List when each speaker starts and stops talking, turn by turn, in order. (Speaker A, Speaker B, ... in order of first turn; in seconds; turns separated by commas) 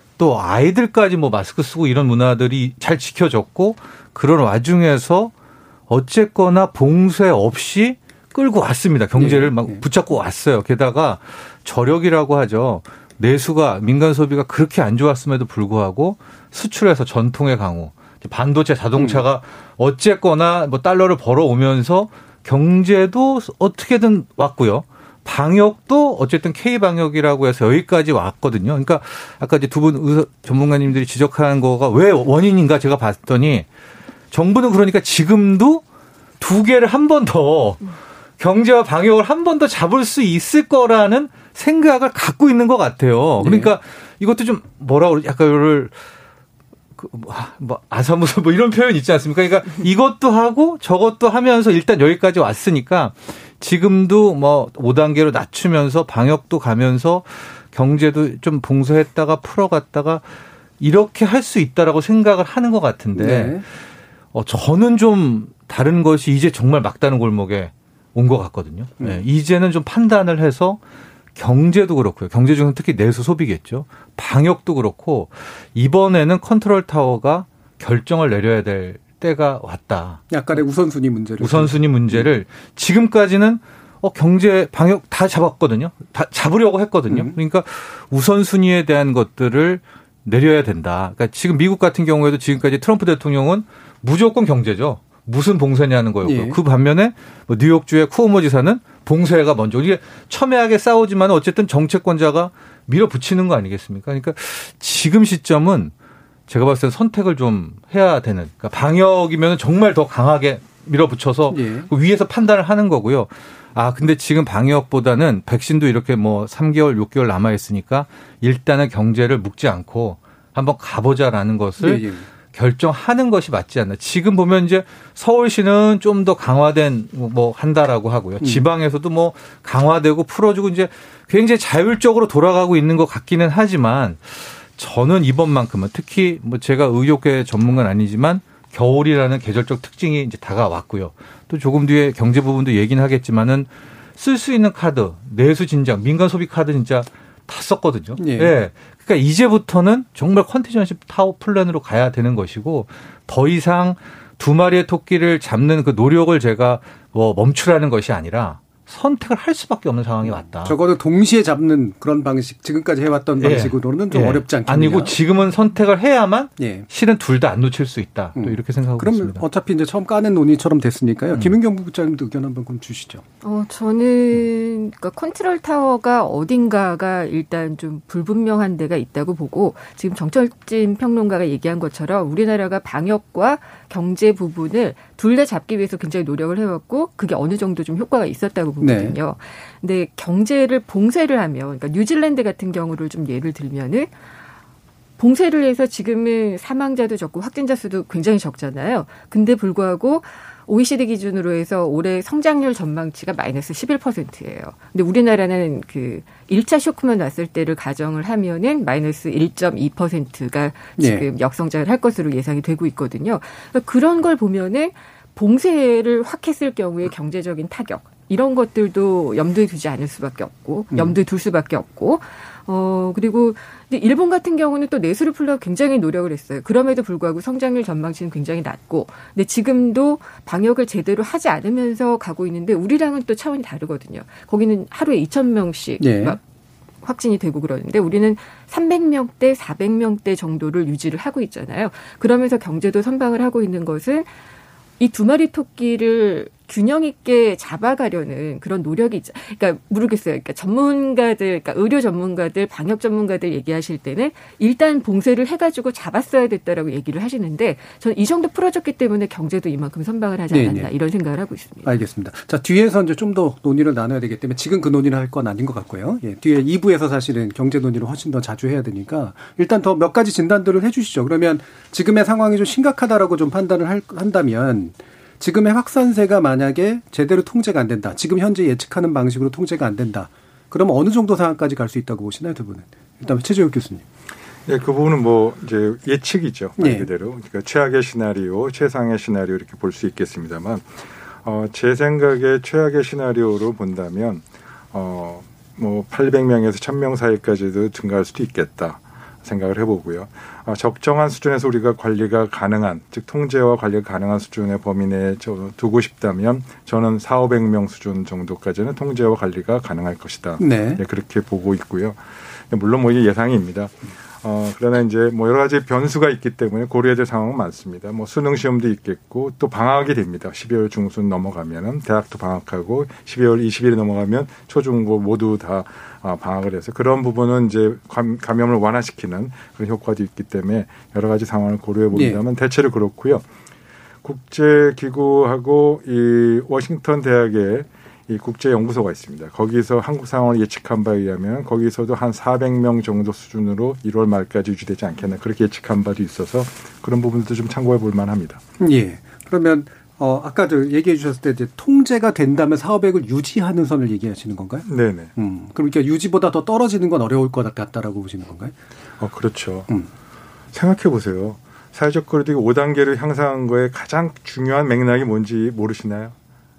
Speaker A: 0.2-5.3, Speaker A: 5.9-33.7, Speaker B: 9.2-9.8, Speaker B: 19.0-19.2, Speaker A: 34.3-35.8, Speaker A: 36.4-46.0, Speaker B: 43.4-43.7, Speaker A: 47.0-63.6, Speaker B: 63.2-63.6, Speaker A: 64.3-70.8, Speaker A: 71.3-80.2, Speaker B: 80.3-82.3, Speaker A: 81.4-105.9, Speaker B: 87.1-87.3, Speaker B: 96.2-96.6, Speaker A: 106.5-160.8, Speaker B: 111.5-111.9, Speaker B: 121.8-122.2, Speaker B: 148.2-148.5, Speaker B: 160.2-165.2, Speaker A: 163.4-169.4, Speaker B: 166.6-166.9, Speaker B: 168.4-173.2, Speaker C: 173.4-194.1, Speaker B: 188.8-189.2, Speaker C: 195.2-236.4, Speaker B: 211.0-211.2, Speaker B: 236.0-236.4, Speaker C: 237.0-244.3, Speaker C: 245.0-262.0, Speaker B: 260.5-260.9, Speaker B: 261.8-284.0, Speaker D: 284.7-290.9, Speaker B: 286.8-287.1, Speaker D: 291.4-312.2, Speaker B: 310.6-311.0, Speaker D: 312.7-333.4, Speaker B: 332.1-332.4, Speaker D: 334.2-348.6, Speaker B: 348.8-358.7, Speaker D: 354.9-355.3, Speaker D: 359.2-359.9, Speaker D: 360.7-366.3